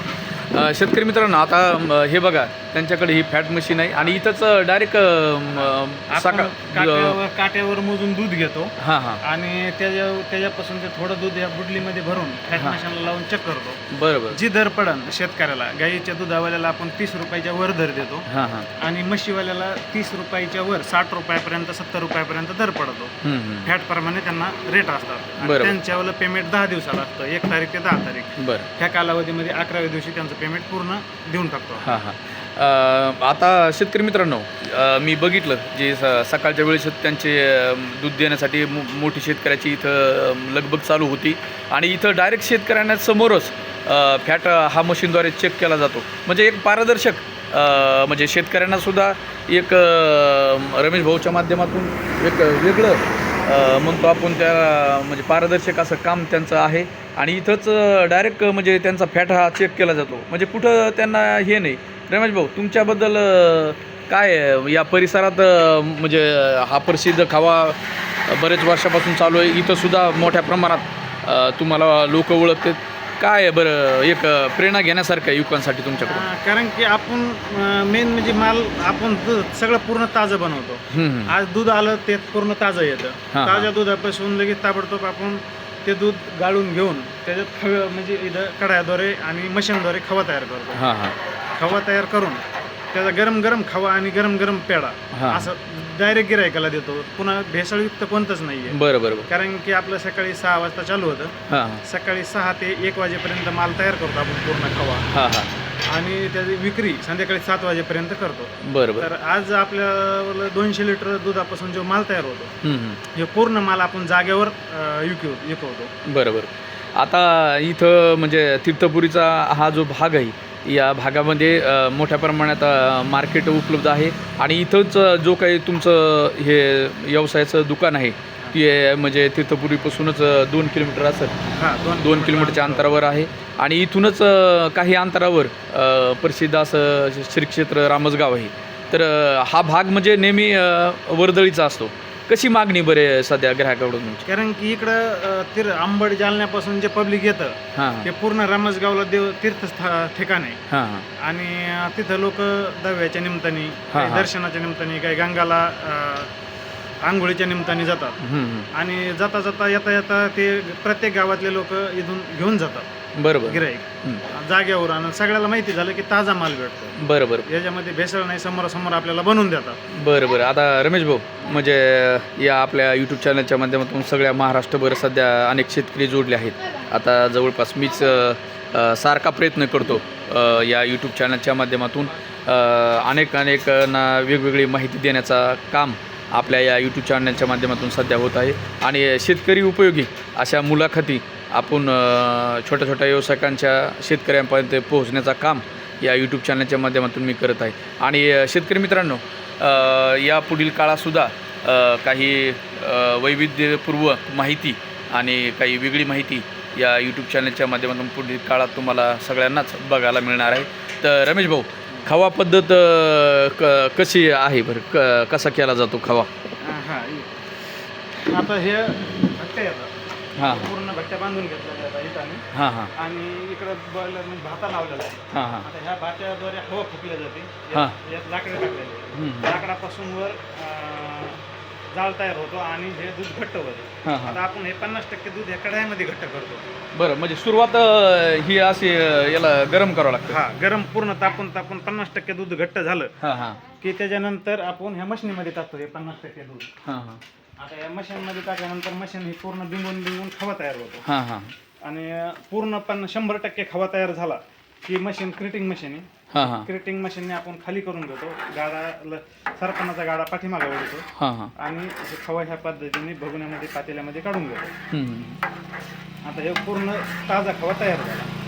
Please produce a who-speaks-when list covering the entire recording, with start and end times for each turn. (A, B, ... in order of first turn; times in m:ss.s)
0:00.4-0:07.2 A
0:05.6-0:23.1 B
0:08.8-0:09.2 A
0:13.9-0:14.4 A
0:18.3-0:18.7 A
0:23.2-0:23.7 A
0:23.6-0:31.9 B
0:25.4-0:25.7 A
0:28.4-0:28.7 A
0:31.8-1:16.3 A
1:16.0-1:30.8 B
1:20.9-1:21.3 A
1:23.3-1:23.7 A
1:30.8-1:31.2 A
1:31.6-1:32.4 B
1:32.9-1:45.1 B
1:35.1-1:35.5 A
1:38.7-1:39.3 A
1:41.5-1:41.8 A
1:45.1-1:45.5 A
1:45.9-1:52.5 B
1:48.6-1:49.1 A
1:52.6-1:53.0 A
1:53.1-1:55.9 B
1:56.1-2:11.4 A
2:11.5-2:13.0 B
2:12.0-2:24.2 A
2:24.2-2:30.6 B
2:27.8-2:28.1 A
2:30.7-2:31.1 A
2:31.2-2:36.3 B
2:33.9-2:34.3 A
2:37.1-2:38.2 B
2:38.2-2:38.7 A
2:38.7-2:42.9 B
2:43.2-2:44.2 A
2:43.4-2:49.8 B
2:47.0-2:47.5 A
2:49.9-3:36.3 A
3:36.6-3:37.4 B
3:38.3-3:42.4 B
3:40.4-3:40.7 A
3:42.5-3:42.9 A
3:43.0-3:51.4 B
3:45.3-3:45.7 A
3:49.2-3:49.6 A
3:51.9-3:56.7 B
3:54.0-3:54.4 A
3:57.0-4:00.4 A
4:00.3-4:03.1 B
4:03.2-4:03.6 A
4:03.8-4:06.7 B
4:06.8-4:07.2 A
4:07.6-4:11.0 B
4:11.0-4:11.5 A
4:11.8-4:24.7 B
4:16.3-4:16.7 A
4:21.2-4:21.5 A
4:24.9-4:25.4 A
4:26.2-4:28.3 B